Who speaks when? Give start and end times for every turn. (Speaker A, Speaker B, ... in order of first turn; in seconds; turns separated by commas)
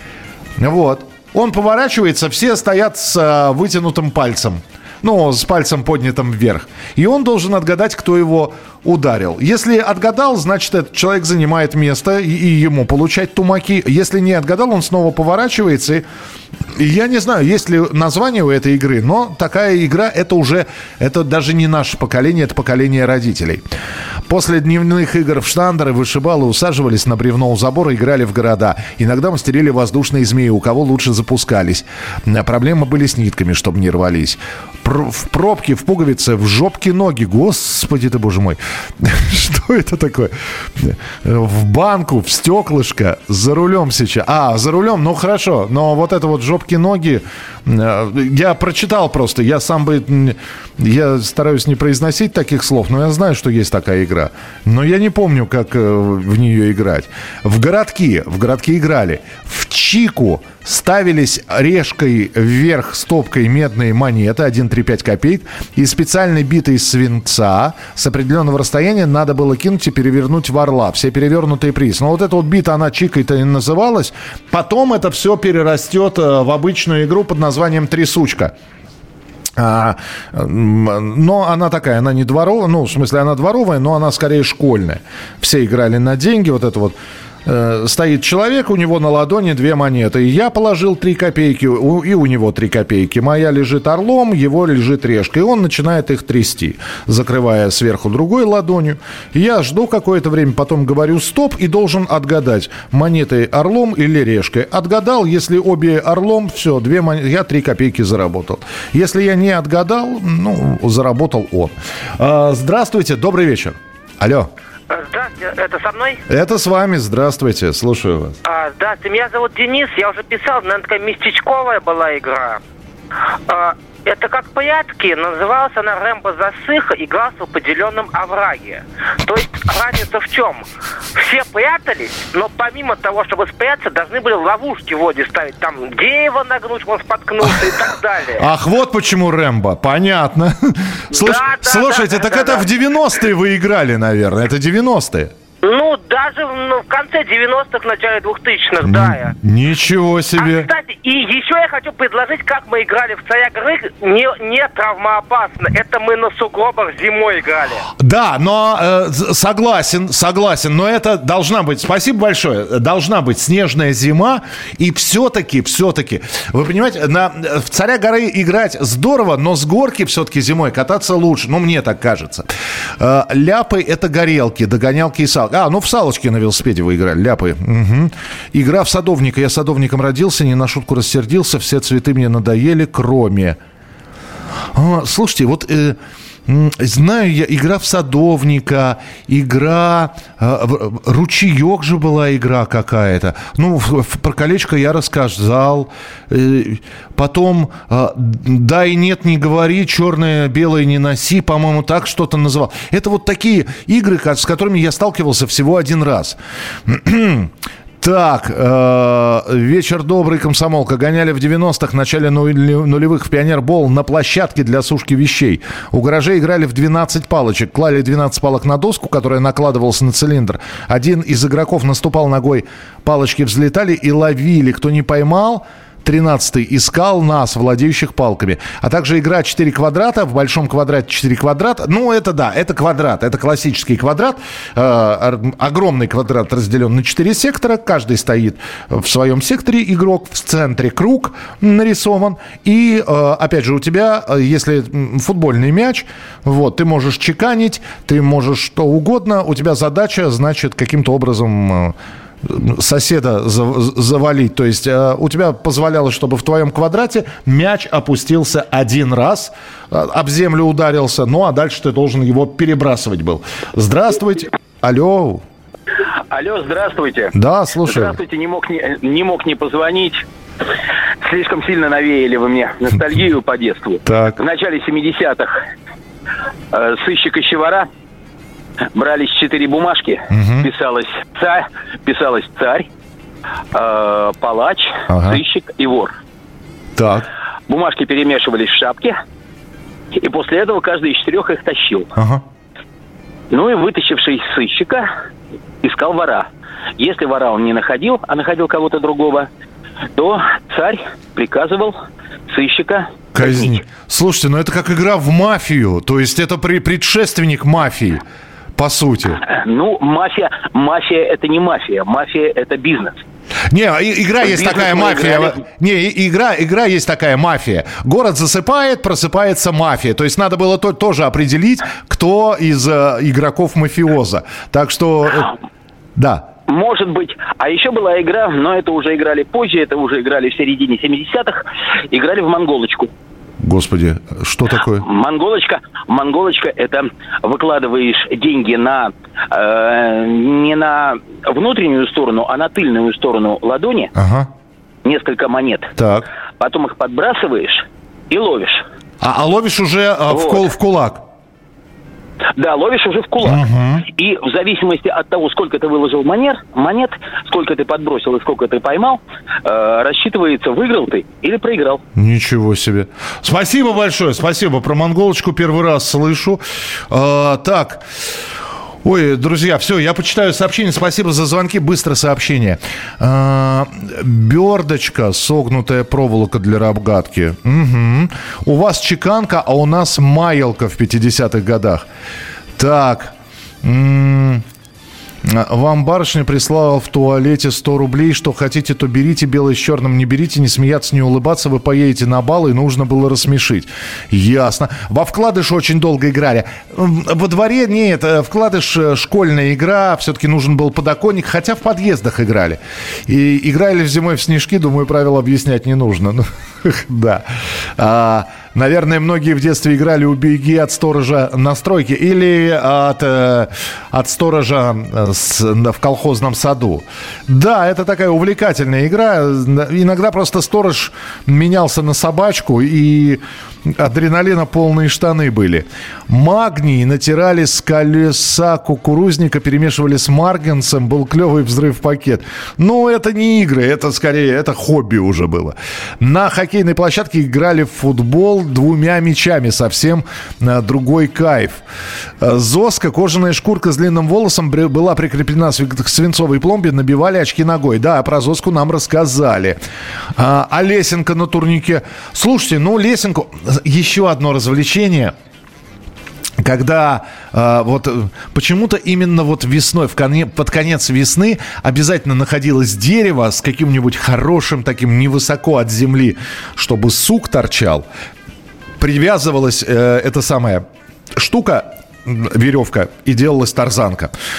Speaker A: 0.6-16.0, Speaker A: 16.7-23.6, Speaker A: 24.3-78.5, Speaker A: 79.6-114.5, Speaker B: 114.9-116.2, Speaker A: 116.3-118.4, Speaker B: 118.5-122.6, Speaker B: 123.5-130.6, Speaker B: 131.2-138.3, Speaker A: 138.3-145.3, Speaker B: 141.5-142.2, Speaker B: 145.6-149.1, Speaker A: 148.8-150.7, Speaker B: 150.4-157.8, Speaker A: 157.9-172.5, Speaker A: 173.0-183.6, Speaker A: 184.7-265.4, Speaker C: 266.3-267.3, Speaker A: 267.3-268.2, Speaker C: 267.8-270.2, Speaker C: 271.2-275.6, Speaker A: 274.0-274.4, Speaker C: 276.7-277.9, Speaker C: 278.9-282.9, Speaker A: 280.3-280.7, Speaker C: 283.7-286.1, Speaker A: 285.1-285.4, Speaker A: 286.9-287.3, Speaker C: 287.7-289.2, Speaker C: 290.1-292.1, Speaker A: 292.1-292.4, Speaker C: 293.5-295.1, Speaker C: 295.8-296.5, Speaker C: 297.0-299.5, Speaker C: 300.1-301.9, Speaker C: 302.5-303.8, Speaker A: 303.3-308.2, Speaker A: 308.8-309.4, Speaker C: 309.4-313.2, Speaker A: 313.7-325.5, Speaker C: 314.4-315.6, Speaker A: 326.1-326.5, Speaker C: 326.7-333.1, Speaker A: 333.6-335.0, Speaker C: 335.0-344.1, Speaker A: 344.1-344.5, Speaker C: 345.0-345.9, Speaker A: 346.0-346.3, Speaker C: 346.6-348.8, Speaker A: 349.2-351.2, Speaker C: 350.3-350.6, Speaker C: 352.5-362.0, Speaker A: 353.4-354.1, Speaker A: 362.1-368.0, Speaker A: 369.0-382.1, Speaker A: 382.8-384.6, Speaker A: 385.4-441.8, Speaker A: 442.4-449.8, Speaker A: 450.4-455.3, Speaker A: 456.6-468.1, Speaker A: 469.0-474.3